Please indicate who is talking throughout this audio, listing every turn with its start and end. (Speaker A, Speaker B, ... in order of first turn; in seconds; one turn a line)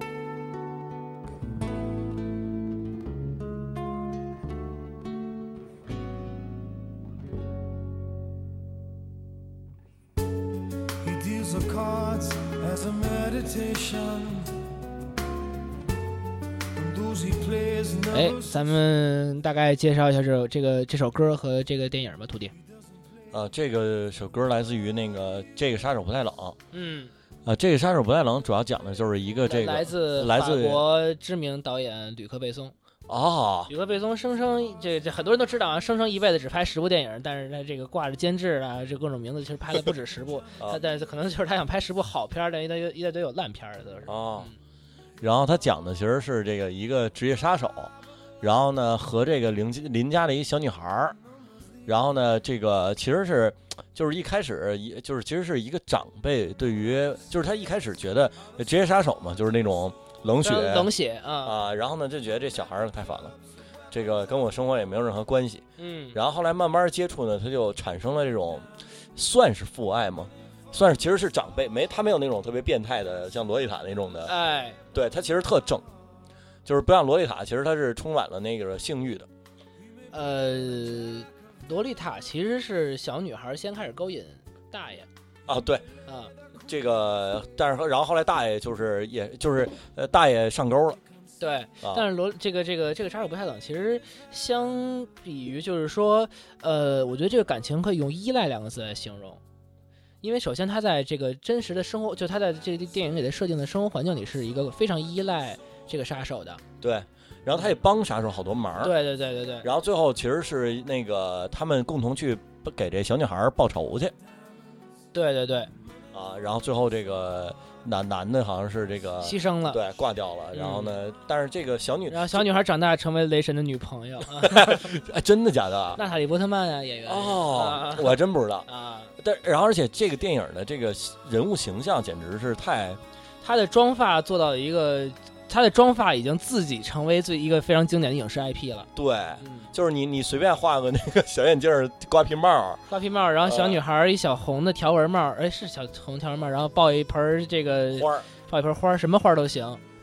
Speaker A: 11.0-14.4
Speaker A: 16.8-18.4
Speaker B: 18.1-22.5
Speaker C: 23.3-26.6
Speaker B: 26.7-27.1
Speaker C: 27.4-30.9
Speaker B: 29.4-32.7
Speaker C: 33.1-33.7
Speaker B: 33.7-44.6
Speaker C: 44.0-44.5
Speaker C: 45.2-51.2
Speaker C: 51.9-60.9
Speaker B: 60.4-61.5
Speaker C: 61.4-63.4
Speaker C: 63.9-74.3
Speaker B: 65.8-66.2
Speaker B: 74.2-74.8
Speaker C: 74.9-75.8
Speaker C: 76.6-79.3
Speaker B: 80.1-85.1
Speaker C: 85.5-85.9
Speaker B: 86.1-86.3
Speaker C: 86.7-91.0
Speaker B: 91.4-99.4
Speaker C: 91.8-92.1
Speaker B: 100.2-106.6
Speaker C: 106.8-109.0
Speaker B: 108.8-109.7
Speaker C: 109.6-114.1
Speaker B: 115.1-115.7
Speaker C: 116.1-122.5
Speaker B: 119.2-119.8
Speaker B: 120.5-121.0
Speaker B: 122.1-124.9
Speaker C: 124.3-126.0
Speaker B: 126.0-129.1
Speaker C: 127.0-133.0
Speaker B: 133.4-138.9
Speaker C: 138.9-142.8
Speaker B: 139.4-139.7
Speaker B: 142.9-149.8
Speaker C: 143.4-143.8
Speaker C: 147.9-148.3